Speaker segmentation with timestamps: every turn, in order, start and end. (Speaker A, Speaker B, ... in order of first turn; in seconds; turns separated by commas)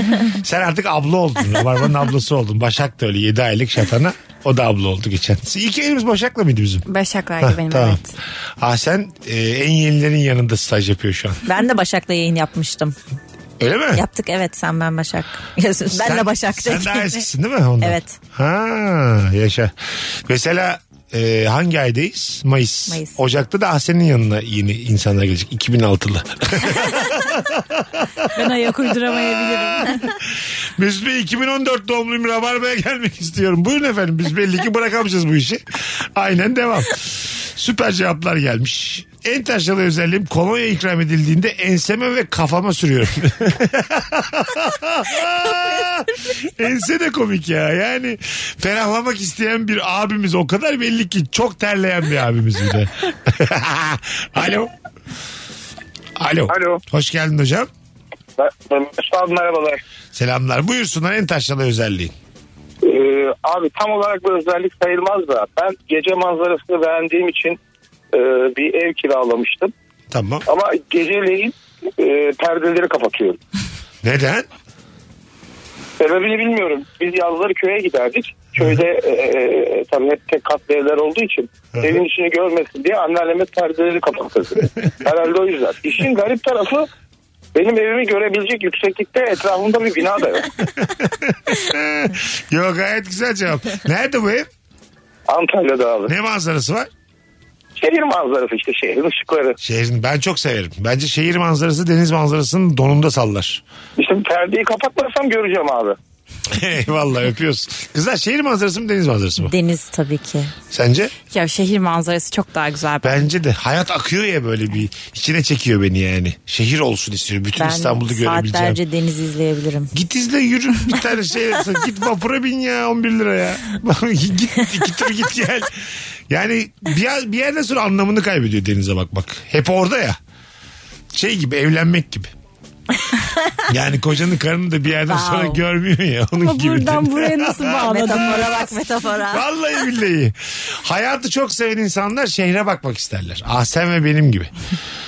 Speaker A: 0.3-6.8, Speaker B: 6.9-8.1, Speaker A: 7.4-8.0, Speaker A: 8.6-11.4, Speaker C: 11.4-12.9, Speaker A: 13.6-14.0, Speaker C: 13.9-17.2, Speaker A: 15.9-19.7, Speaker C: 17.8-18.1, Speaker A: 20.3-54.7, Speaker C: 22.9-23.2, Speaker B: 28.4-30.0, Speaker A: 56.2-57.7, Speaker D: 56.5-56.8, Speaker D: 58.4-59.8, Speaker A: 60.1-62.1, Speaker D: 62.8-67.6, Speaker D: 68.1-69.7, Speaker A: 70.1-70.5, Speaker D: 70.5-73.4, Speaker A: 74.0-74.5, Speaker D: 76.0-86.9, Speaker D: 87.5-90.5, Speaker A: 90.8-94.5, Speaker D: 95.3-96.1, Speaker A: 96.1-96.9, Speaker D: 97.8-99.6, Speaker A: 99.6-103.6, Speaker D: 104.0-106.0, Speaker A: 106.5-109.5, Speaker C: 109.4-110.5, Speaker A: 110.7-111.1, Speaker B: 111.3-113.3, Speaker A: 113.0-118.8, Speaker C: 117.6-119.9, Speaker A: 119.9-125.7, Speaker A: 126.3-130.2, Speaker A: 131.1-132.3, Speaker A: 133.7-138.7, Speaker C: 135.1-135.6, Speaker B: 136.4-138.6, Speaker C: 137.8-139.4, Speaker A: 139.3-144.5